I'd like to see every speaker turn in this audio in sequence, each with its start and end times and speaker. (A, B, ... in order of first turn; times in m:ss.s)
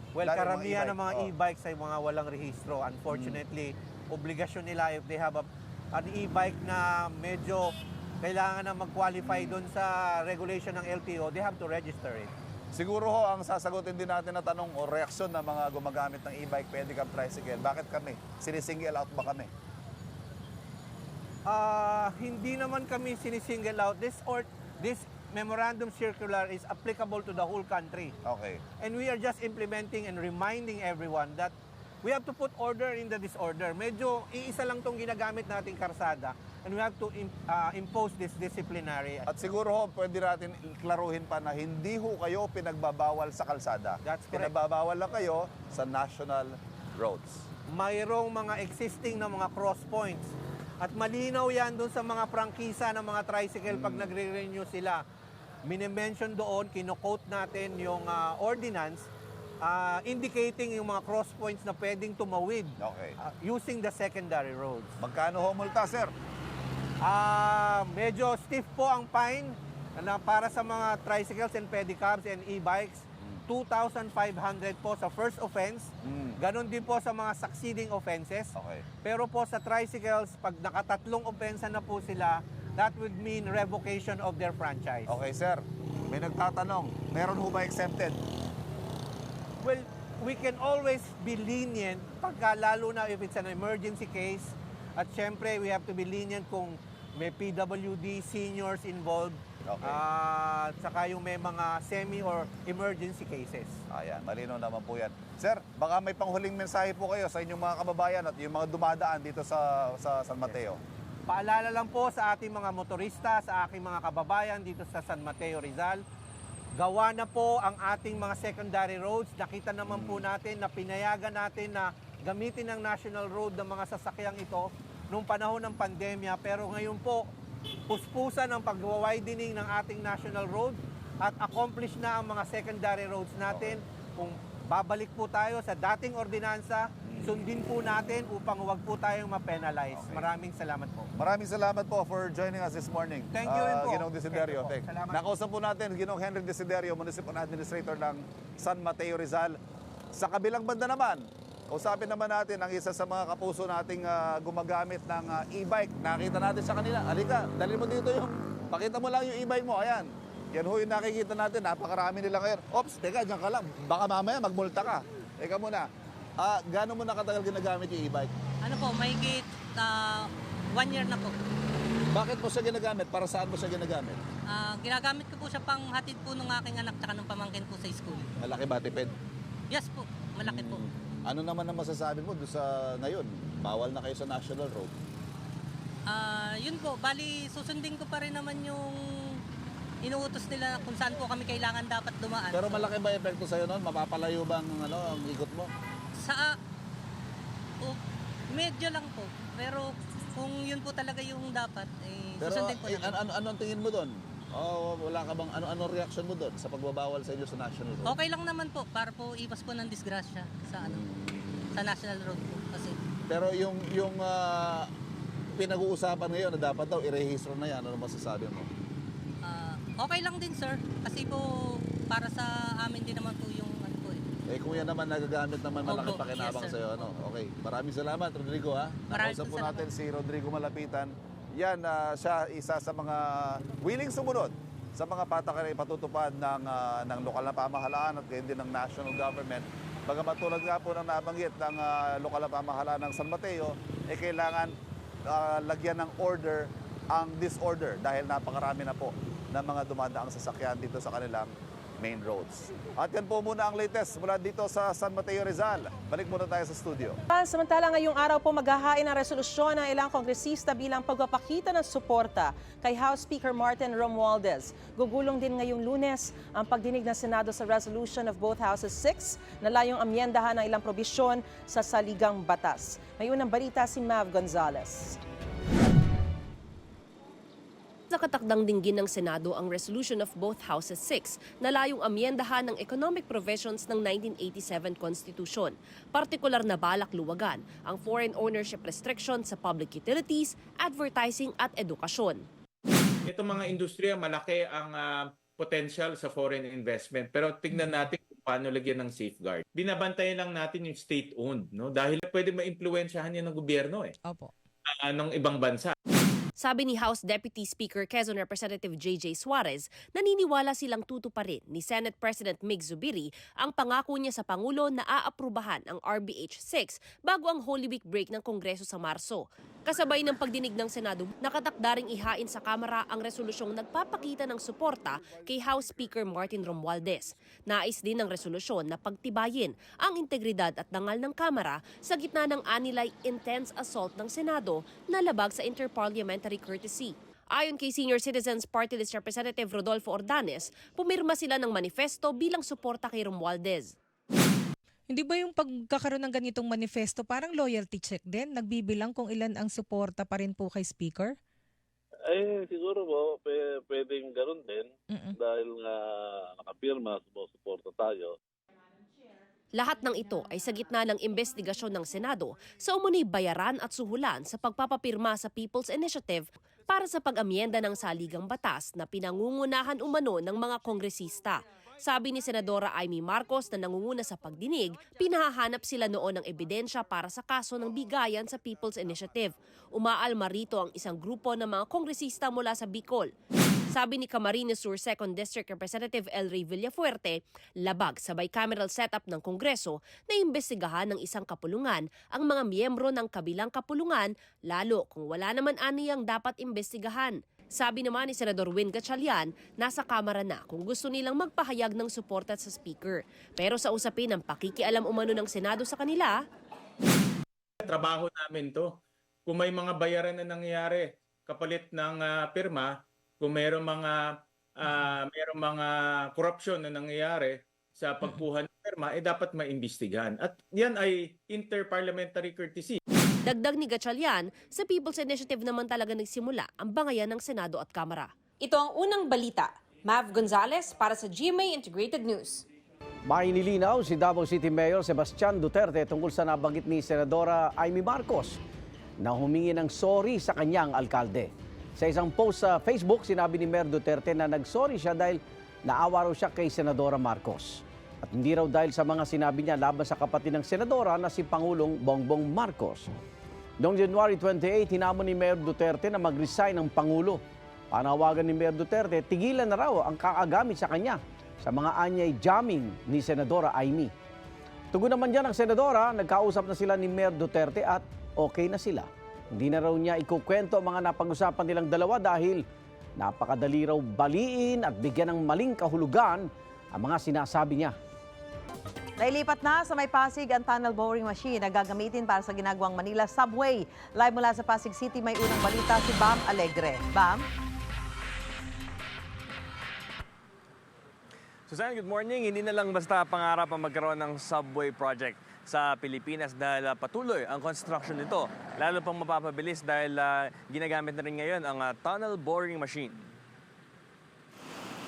0:00.2-0:12.3 A
0:00.2-0:01.3 B
0:03.1-0:03.4 B
0:09.2-0:09.6 B
0:12.7-0:19.5 B
0:21.5-0:28.1 A
0:28.2-0:28.6 B
0:28.8-0:39.3 A
0:39.3-0:47.5 B
0:44.0-0:44.5 A
0:47.7-0:55.0 A
0:53.7-0:54.1 B
0:55.6-0:59.1 A
0:59.6-1:04.9 A
1:02.8-1:03.2 B
1:05.0-1:06.1 B
1:07.0-1:25.1 A
1:16.0-1:16.4 B
1:18.6-1:18.8 B
1:25.1-1:28.2 B
1:29.6-1:43.8 A
1:39.7-1:40.0 B
1:43.9-1:50.8 B
1:51.3-1:56.0 A
1:56.8-2:07.3 A
1:59.9-2:00.2 B
2:07.9-2:21.1 A
2:13.5-2:13.8 B
2:17.0-2:17.4 B
2:19.9-2:20.2 B
2:21.1-2:29.6 B
2:23.3-2:25.2 A
2:30.1-2:45.9 B
2:46.4-2:48.3 B
2:48.6-2:51.3 C
2:52.1-2:54.2 B
2:54.5-2:58.3 C
2:58.4-2:59.1 B
2:59.7-3:00.8 C
3:00.4-3:04.9 B
3:06.1-3:09.0 C
3:10.0-3:12.9 C
3:12.5-3:15.7 B
3:16.2-3:16.5 C
3:18.5-3:23.2 C
3:22.4-3:28.1 B
3:28.0-3:31.0 C
3:30.8-3:31.6 B
3:31.7-3:33.0 C
3:33.3-3:34.9 B
3:35.6-3:38.7 B
3:39.4-3:44.2 C
3:44.5-4:04.7 B
3:45.8-3:47.1 C
3:49.1-3:49.9 C
4:05.3-4:17.2 B
4:17.3-4:35.2 D
4:38.1-4:52.4 E
4:53.3-5:04.1 F
5:04.2-5:04.5 G
5:05.0-5:05.9 F
5:06.6-5:43.9 E
5:45.1-5:51.4 G
5:52.3-5:58.3 H
5:55.1-5:55.4 G
5:59.7-6:23.3 E
6:23.9-6:46.3 E
6:47.8-6:48.9 F
6:49.4-6:54.2 F
6:54.8-7:03.0 F
7:03.4-7:08.3 E
7:08.6-7:12.6 I
7:13.2-7:18.6 J
7:19.2-7:33.1 J
7:33.8-7:44.1 J
7:44.9-7:52.6 J
7:53.2-7:57.9 J
7:59.2-8:07.4 K
8:11.7-8:23.2 L